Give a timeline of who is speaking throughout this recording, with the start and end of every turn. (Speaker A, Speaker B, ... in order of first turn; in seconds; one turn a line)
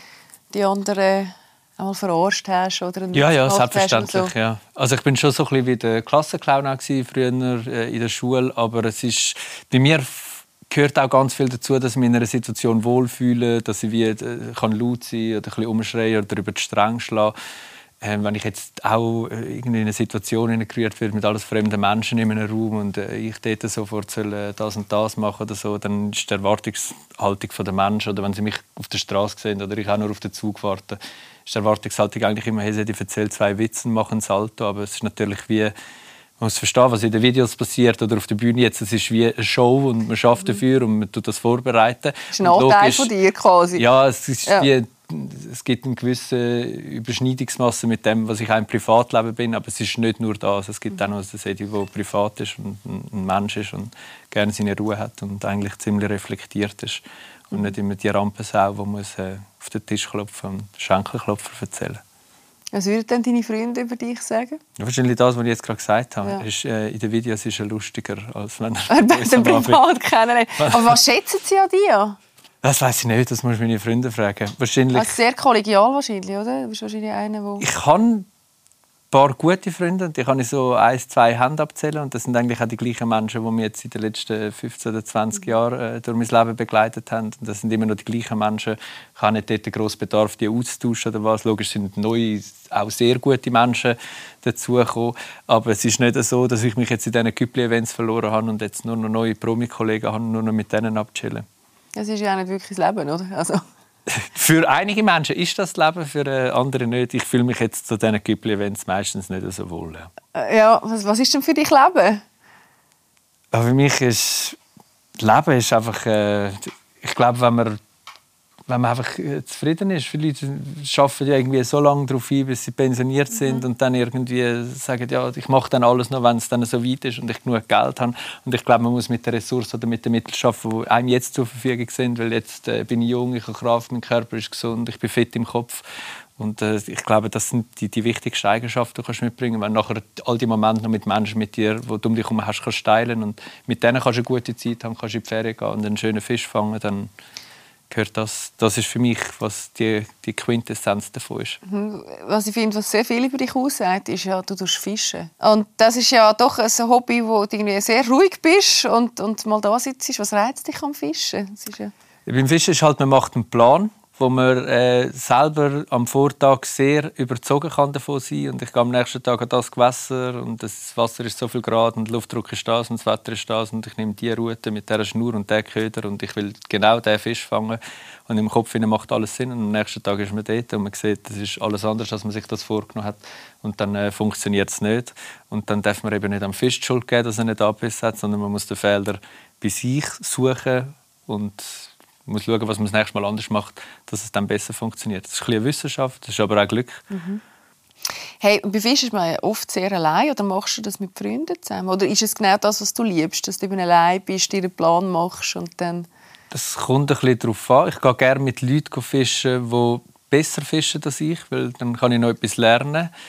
Speaker A: 0.5-4.3
Speaker B: 3.1-17.3
Speaker B: 18.0-35.7
Speaker B: 36.4-43.1
Speaker A: 42.3-43.9
Speaker B: 43.8-62.0
Speaker A: 62.7-64.6
Speaker B: 64.8-69.8
Speaker A: 68.9-72.2
Speaker B: 70.6-71.0
Speaker B: 72.6-75.2
Speaker A: 74.9-77.7
Speaker B: 77.6-78.3
Speaker B: 79.1-101.5
Speaker A: 102.0-103.6
Speaker B: 104.1-110.1
Speaker A: 110.3-112.2
Speaker B: 113.5-114.6
Speaker B: 115.2-117.8
Speaker B: 118.7-135.8
Speaker B: 136.4-147.1
Speaker B: 147.9-151.6
Speaker A: 151.7-161.9
Speaker B: 162.3-197.0
Speaker A: 197.1-197.4
Speaker A: 198.4-206.1
Speaker B: 206.5-213.1